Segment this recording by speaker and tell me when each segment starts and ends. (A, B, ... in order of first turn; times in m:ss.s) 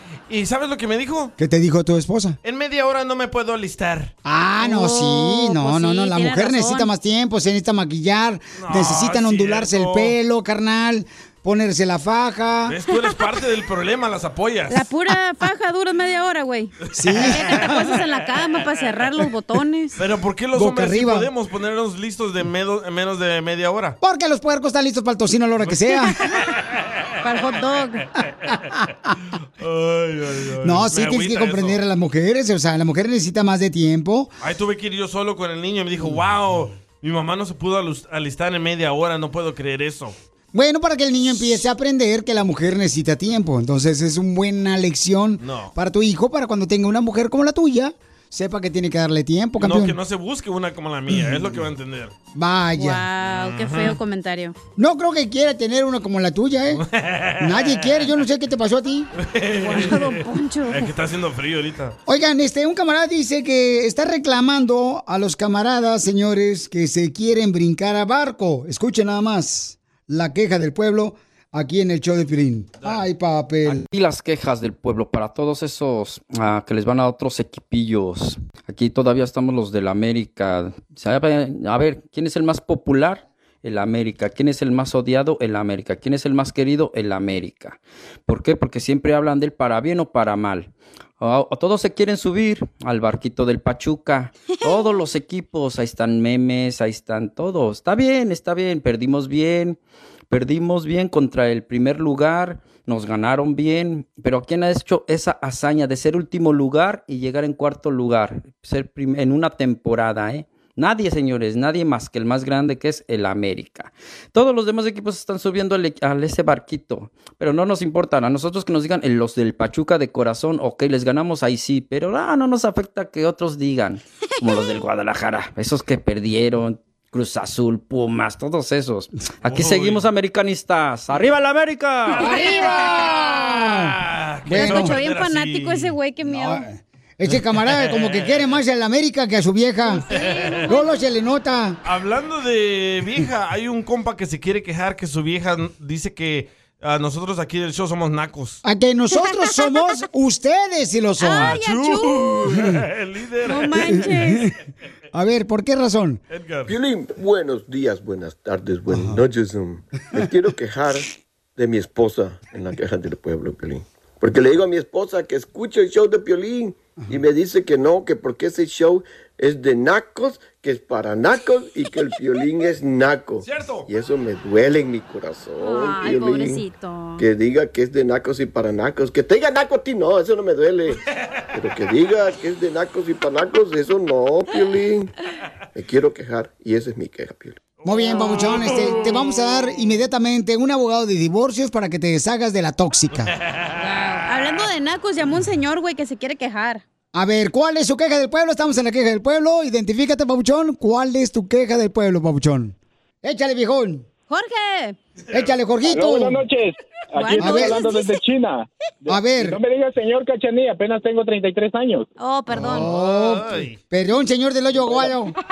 0:00.3-0:01.3 A
0:01.4-0:02.4 B
0:02.4-0:04.1 A
0:04.2-0:12.8 B
0:04.6-0:06.9 C
0:08.6-0:10.2 A
0:12.7-0:14.9 A
0:14.7-0:20.0 C
0:16.9-0:17.4 A
0:16.9-0:17.8 B
0:20.0-0:24.0 A
0:20.5-0:21.3 B
0:24.0-0:26.2 B
0:27.2-0:28.0 C
0:29.6-0:31.8 A
0:30.6-0:34.3 B
0:34.4-0:40.2 A
0:40.5-0:50.0 B
0:45.4-0:45.7 A
0:49.6-0:52.1 A
0:51.1-0:51.5 B
0:52.4-0:53.0 B
0:52.8-0:54.6 C
0:53.2-0:54.0 A
0:54.8-0:56.8 B
0:56.7-0:58.1 A
0:57.4-0:59.1 B
0:59.2-1:02.0 A
0:59.6-1:00.9 C
1:02.1-1:13.8 B
1:13.7-1:30.7 D
1:31.2-1:39.8 D
1:34.6-1:34.9 C
1:40.3-2:12.2 D
2:04.4-2:04.8 C
2:09.5-2:10.0 A
2:12.2-2:15.0 B
2:12.2-2:12.7 C
2:13.5-2:15.9 A
2:14.6-2:16.6 C
2:16.2-2:20.0 B
2:17.3-2:18.5 A
2:20.1-2:20.9 C
2:20.2-2:20.7 A
2:20.6-2:21.8 B
2:21.8-2:28.6 A
2:28.6-2:31.6 B
2:29.2-2:29.9 C
2:31.2-2:32.4 C
2:31.4-2:34.0 A
2:33.5-2:34.4 C
2:33.8-2:34.5 B
2:35.1-2:36.2 B
2:36.3-2:36.7 A
2:36.7-2:56.6 E
2:38.9-2:39.2 B
2:53.4-2:53.9 A
2:55.6-2:57.2 C
2:57.2-3:01.0 E
3:01.5-3:05.1 E
3:05.8-3:07.6 E
3:07.8-3:09.6 A
3:07.8-3:13.3 B
3:13.2-3:14.6 A
3:13.8-3:16.8 C
3:17.1-3:24.0 B
3:24.3-3:25.0 C
3:25.3-3:26.4 B
3:25.9-3:32.1 F
3:27.2-3:28.2 C
3:27.4-3:27.8 B
3:29.1-3:29.6 B
3:32.2-3:32.9 C
3:32.5-3:35.4 B
3:32.6-3:33.8 A